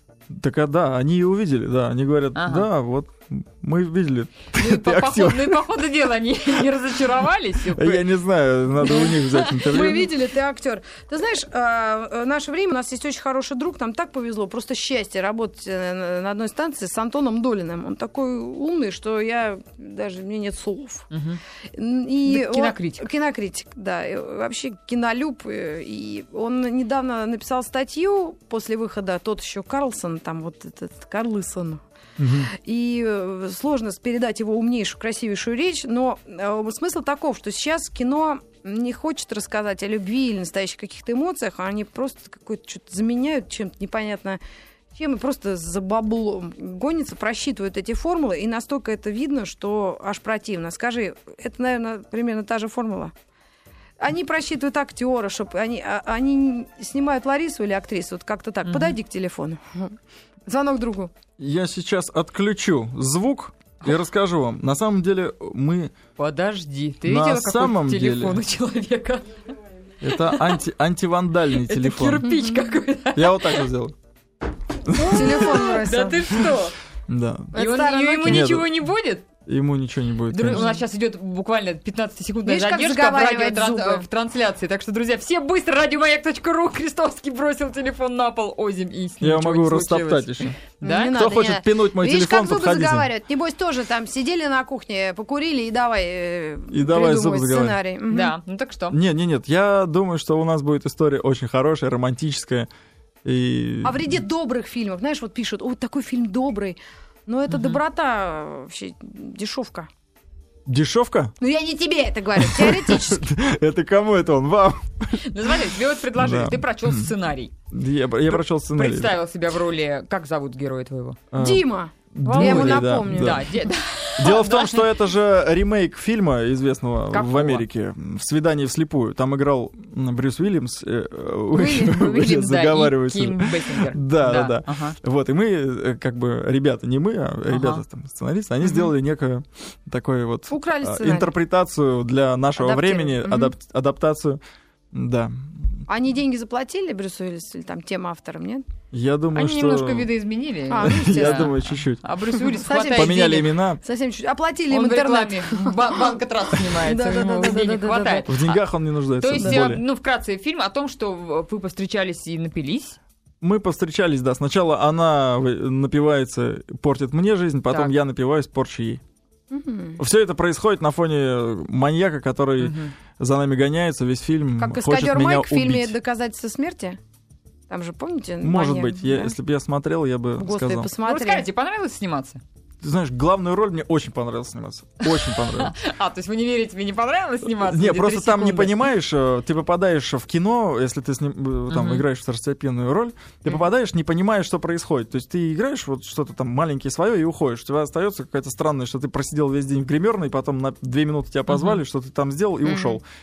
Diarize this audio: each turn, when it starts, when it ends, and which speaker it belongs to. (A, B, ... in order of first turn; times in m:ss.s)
0:00.3-0:05.6 A
0:02.4-0:02.7 B
0:04.5-0:08.0 B
0:07.7-0:10.1 A
0:08.8-0:21.1 C
0:08.9-0:09.3 B
0:21.1-0:21.4 B
0:21.7-0:31.8 C
0:22.3-0:23.1 B
0:32.2-0:32.5 A
0:32.4-0:44.4 C
0:45.0-0:53.1 C
0:54.0-1:00.0 C
0:58.6-0:59.0 B
1:00.5-1:01.1 C
1:01.4-1:05.9 A
1:06.2-1:09.5 B
1:07.0-1:08.4 A
1:10.0-1:12.3 A
1:11.6-1:13.7 B
1:12.3-1:12.6 C
1:13.2-1:14.0 A
1:14.8-1:15.7 A
1:15.0-1:16.4 C
1:15.1-1:16.8 B
1:17.1-1:17.6 A
1:17.5-1:18.5 C
1:17.5-1:19.2 B
1:18.2-1:18.7 A
1:19.5-1:20.7 A
1:20.3-1:31.2 B
1:22.5-1:24.0 C
1:29.2-1:30.6 A
1:30.8-1:38.4 C
1:31.1-1:33.1 A
1:36.7-1:37.8 A
1:38.1-1:39.0 B
1:38.9-1:42.7 A
1:43.2-1:44.1 A
1:43.8-1:49.9 C
1:47.5-1:47.8 B
1:50.7-1:51.3 A
1:51.4-1:53.3 C
1:52.4-1:55.5 A
1:55.2-1:57.5 B
1:56.2-1:57.1 A
1:57.7-1:59.2 A
1:58.3-2:01.2 B
2:01.3-2:03.5 A
2:01.4-2:03.5 C
2:02.3-2:04.9 B
2:04.2-2:24.4 A
2:07.1-2:07.6 B
2:11.6-2:12.4 C
2:12.1-2:15.0 B
2:17.5-2:17.8 B
2:20.5-2:21.3 C
2:22.6-2:23.5 C
2:24.9-2:25.8 A
2:25.9-2:28.6 C
2:28.9-2:30.1 A
2:29.3-2:33.5 B
2:30.7-2:31.6 C
2:30.8-2:32.0 A
2:32.5-2:38.3 C
2:32.9-2:33.8 A
2:34.7-2:38.6 B
2:38.3-2:39.8 A
2:39.2-2:43.0 B
2:43.4-2:49.0 A
2:49.5-2:50.0 C
2:50.0-2:56.0 A
2:52.6-2:52.9 B
2:54.6-2:57.0 C
2:57.7-2:59.3 C
2:58.4-3:00.9 A
3:00.4-3:01.5 C
3:01.0-3:02.4 B
3:02.8-3:05.8 A
3:05.2-3:08.8 B
3:07.4-3:23.0 A
3:11.7-3:12.0 B
3:21.5-3:21.8 B
3:22.6-3:23.0 C